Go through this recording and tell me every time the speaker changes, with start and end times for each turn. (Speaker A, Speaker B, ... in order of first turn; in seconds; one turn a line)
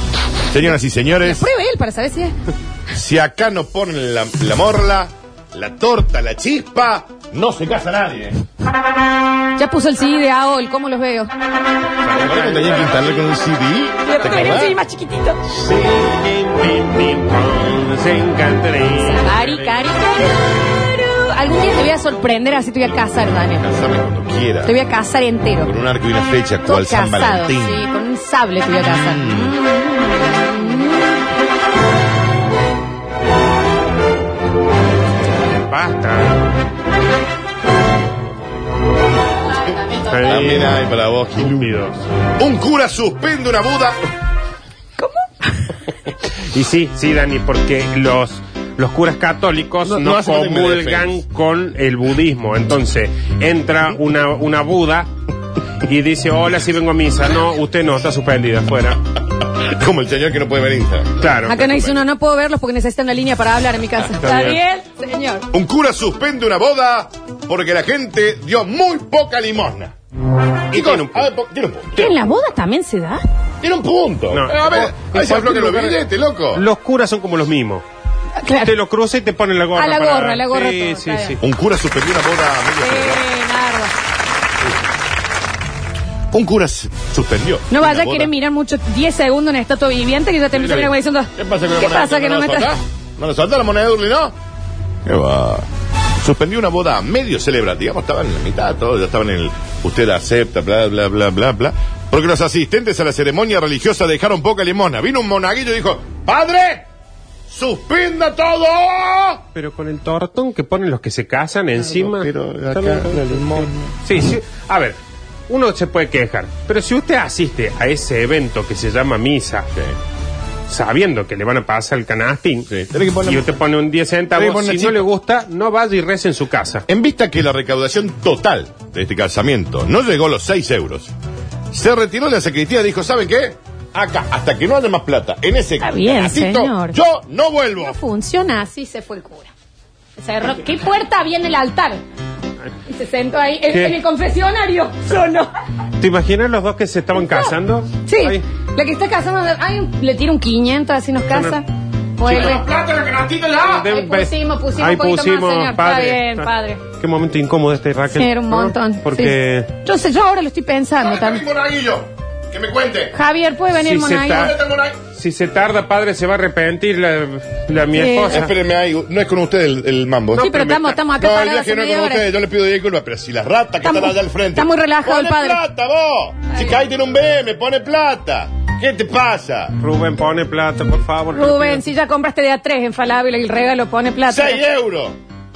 Speaker A: 0.5-1.5
Speaker B: 1.2-2.3
Speaker A: 2.9-8.4
Speaker B: 9.6-11.3
Speaker C: 12.0-13.2
Speaker A: 12.2-14.8
Speaker B: 14.1-15.4
Speaker C: 15.5-19.8
Speaker B: 19.0-23.8
Speaker A: 23.6-24.8
Speaker B: 24.6-25.7
Speaker A: 25.6-27.9
Speaker B: 26.6-31.0
Speaker A: 28.8-29.6
Speaker C: 35.3-36.5
Speaker B: 39.9-40.2
Speaker C: 40.0-40.8
Speaker A: 40.2-41.7
Speaker C: 41.4-42.1
Speaker A: 42.4-44.0
Speaker B: 45.0-45.5
Speaker C: 46.5-55.1
Speaker A: 49.8-51.2
Speaker C: 55.8-59.0
Speaker A: 59.4-62.0
Speaker C: 61.2-61.6
Speaker B: 61.5-65.5
Speaker C: 64.2-64.6
Speaker A: 65.5-70.0
Speaker C: 70.7-71.3
Speaker A: 70.7-72.2
Speaker B: 71.9-73.2
Speaker A: 73.6-76.7
Speaker C: 74.3-77.8
Speaker B: 78.4-78.7
Speaker C: 78.6-81.4
Speaker B: 79.8-81.4
Speaker A: 81.4-83.2
Speaker B: 82.8-83.9
Speaker A: 86.3-88.3
Speaker B: 87.7-92.7
Speaker A: 90.6-94.3
Speaker A: 95.0-95.7
Speaker A: 96.2-106.8
Speaker A: 107.5-109.4
Speaker C: 109.5-115.0
Speaker A: 111.8-113.9
Speaker C: 115.5-119.7
Speaker C: 120.7-126.8
Speaker A: 122.7-123.5
Speaker A: 124.3-125.1
Speaker A: 126.9-131.1
Speaker A: 131.7-138.0
Speaker B: 135.8-137.0
Speaker B: 137.8-139.5
Speaker B: 140.2-142.0
Speaker B: 142.9-145.5
Speaker C: 143.7-144.0
Speaker C: 146.0-148.4
Speaker B: 147.2-152.6
Speaker C: 151.3-151.6
Speaker C: 152.2-152.6
Speaker A: 152.2-153.9
Speaker C: 153.6-159.7
Speaker B: 153.9-156.8
Speaker B: 158.1-161.5
Speaker A: 161.0-163.2
Speaker B: 163.1-164.5
Speaker C: 163.7-164.6
Speaker A: 164.2-165.0
Speaker C: 165.1-168.5
Speaker B: 167.9-168.4
Speaker A: 168.3-170.5
Speaker B: 170.3-172.3
Speaker C: 170.4-171.0
Speaker A: 171.2-179.8
Speaker B: 173.8-175.6
Speaker C: 179.8-181.9
Speaker B: 181.3-184.6
Speaker A: 184.3-185.2